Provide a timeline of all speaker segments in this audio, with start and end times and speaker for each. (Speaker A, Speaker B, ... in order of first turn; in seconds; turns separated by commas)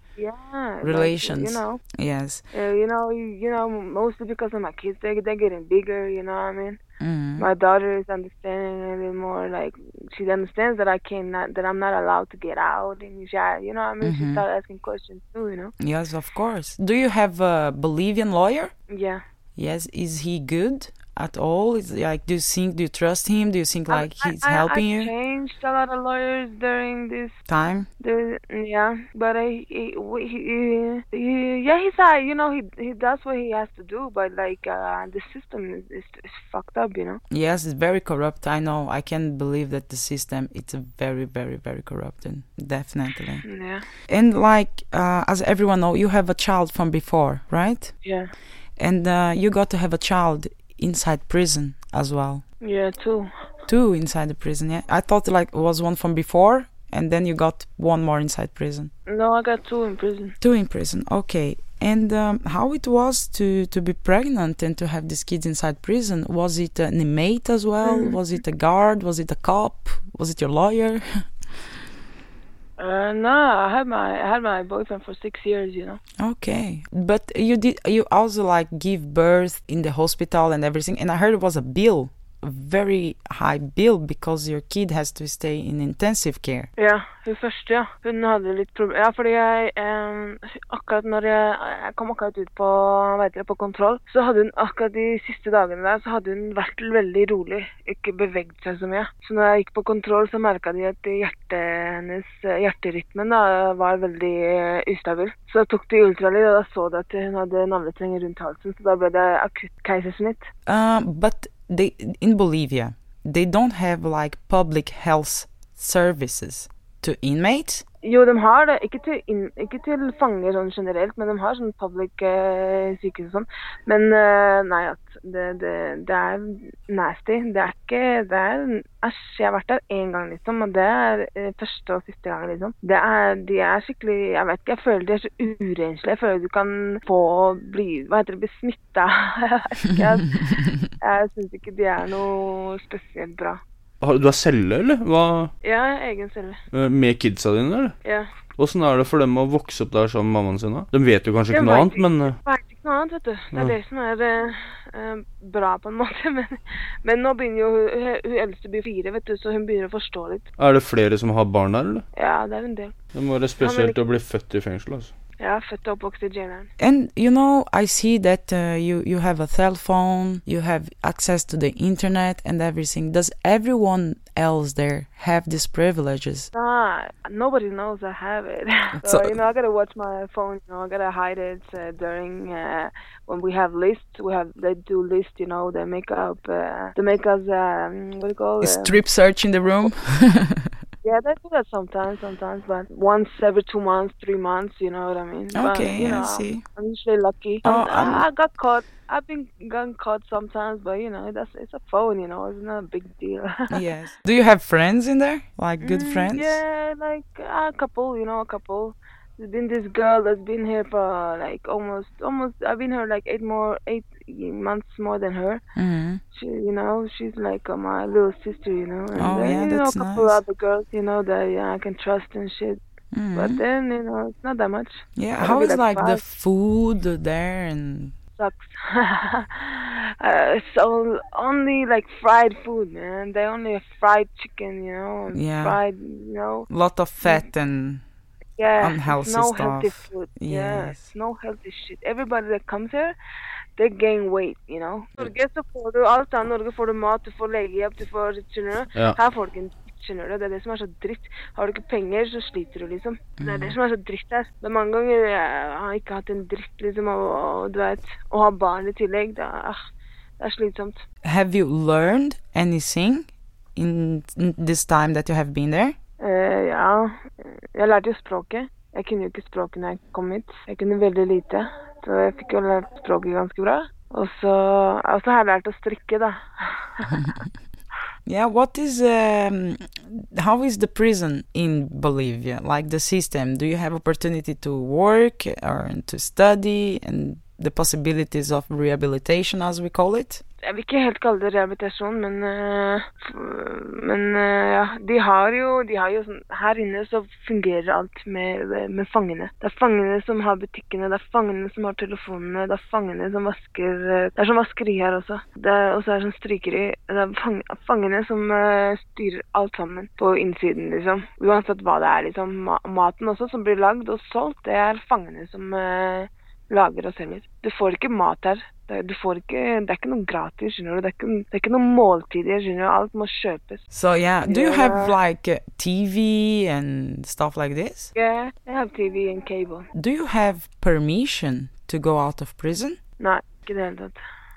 Speaker A: 0.2-1.8, Speaker B: 0.8-2.4, Speaker A: 2.5-6.8, Speaker B: 7.0-7.5, Speaker A: 7.4-15.8, Speaker B: 14.0-14.4, Speaker B: 15.8-18.7, Speaker A: 18.9-19.2, Speaker B: 19.6-25.1, Speaker A: 23.9-27.4, Speaker B: 27.5-27.9, Speaker A: 28.0-37.2, Speaker B: 37.3-43.5, Speaker A: 43.4-43.9, Speaker B: 44.1-48.0, Speaker A: 48.0-48.3, Speaker B: 48.8-52.4, Speaker A: 52.6-53.3, Speaker B: 53.7-58.9, Speaker A: 59.1-60.4, Speaker B: 60.4-71.3, Speaker A: 67.8-68.2, Speaker A: 72.8-76.0, Speaker B: 76.2-86.7, Speaker A: 86.8-110.5, Speaker B: 110.7-117.8, Speaker A: 118.0-143.6, Speaker C: 144.0-145.5, Speaker A: 145.6-146.6, Speaker C: 146.7-148.0, Speaker C: 148.6-152.4, Speaker A: 151.5-160.5, Speaker C: 160.6-162.1, Speaker A: 162.2-164.0, Speaker C: 163.1-165.1, Speaker A: 165.4-166.7, Speaker B: 166.8-176.5, Speaker A: 176.5-189.0, Speaker B: 179.0-179.3, Speaker B: 188.6-190.8, Speaker A: 191.0-203.8, Speaker B: 195.5-196.6, Speaker B: 197.6-198.2, Speaker B: 203.7-206.6, Speaker A: 205.8-215.6, Speaker B: 215.8-216.2, Speaker A: 216.3-222.8, Speaker B: 219.2-220.4, Speaker B: 223.1-223.6, Speaker A: 223.3-226.2, Speaker B: 225.2-228.1, Speaker A: 228.4-236.7, Speaker B: 235.3-235.8, Speaker B: 236.7-238.0, Speaker A: 238.6-243.2, Speaker B: 238.8-241.1, Speaker A: 243.8-259.8, Speaker B: 253.4-253.8, Speaker A: 260.4-261.0, Speaker B: 261.2-265.9, Speaker A: 266.2-277.4, Speaker B: 278.3-290.4, Speaker A: 290.6-323.9, Speaker B: 323.9-328.1, Speaker A: 324.5-325.2, Speaker A: 328.1-329.9, Speaker B: 329.9-333.0, Speaker A: 333.2-334.2